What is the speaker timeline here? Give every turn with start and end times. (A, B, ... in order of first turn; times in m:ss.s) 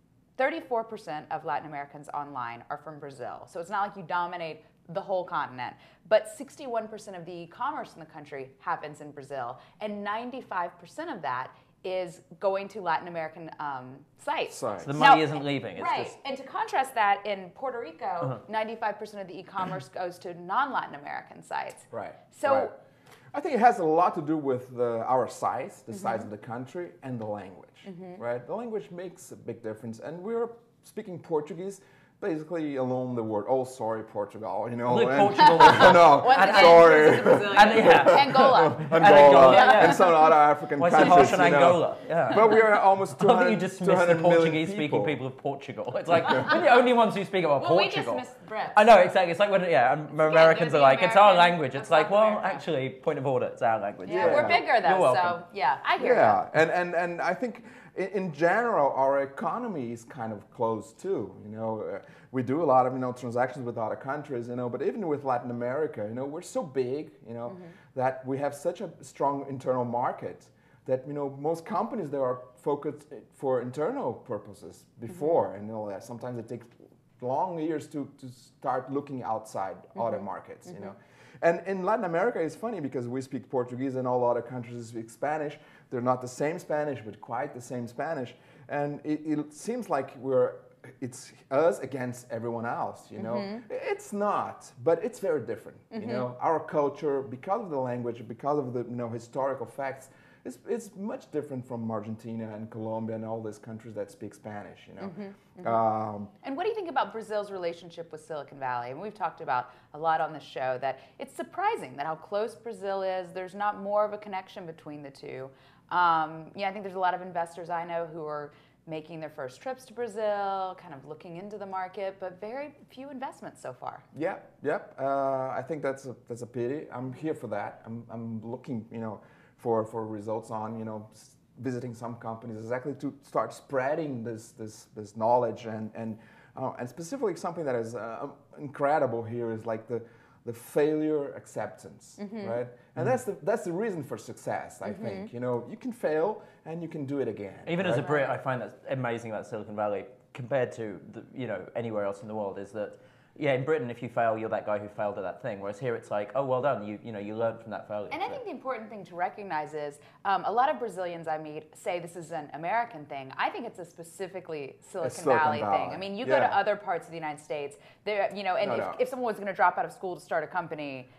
0:00.4-0:22.7 A
0:14.5-0:15.0 B
0:14.8-0:16.1 C
0:21.9-0:22.7 B
0:23.3-0:45.2 B
0:25.9-0:26.3 A
0:27.8-0:28.2 A
0:34.9-0:40.1 C
0:35.4-0:40.4 A
0:40.8-0:55.4 C
0:40.9-0:41.4 A
0:46.1-0:46.6 A
0:47.6-0:49.0 A
0:50.1-0:52.6 A
0:54.1-0:56.4 A
0:54.1-0:54.6 B
0:56.0-1:46.3 B
1:07.5-1:07.8 A
1:15.1-1:15.4 A
1:20.0-1:20.9 A
1:33.2-1:33.6 A
1:35.9-1:36.3 A
1:45.0-1:45.8 A
1:46.4-2:04.0 A
2:04.1-2:28.1 B
2:22.2-2:22.6 A
2:24.8-2:25.3 A
2:27.6-2:38.4 C
2:27.9-2:28.4 A
2:38.1-2:51.1 A
2:45.0-2:46.6 B
2:48.6-2:49.0 B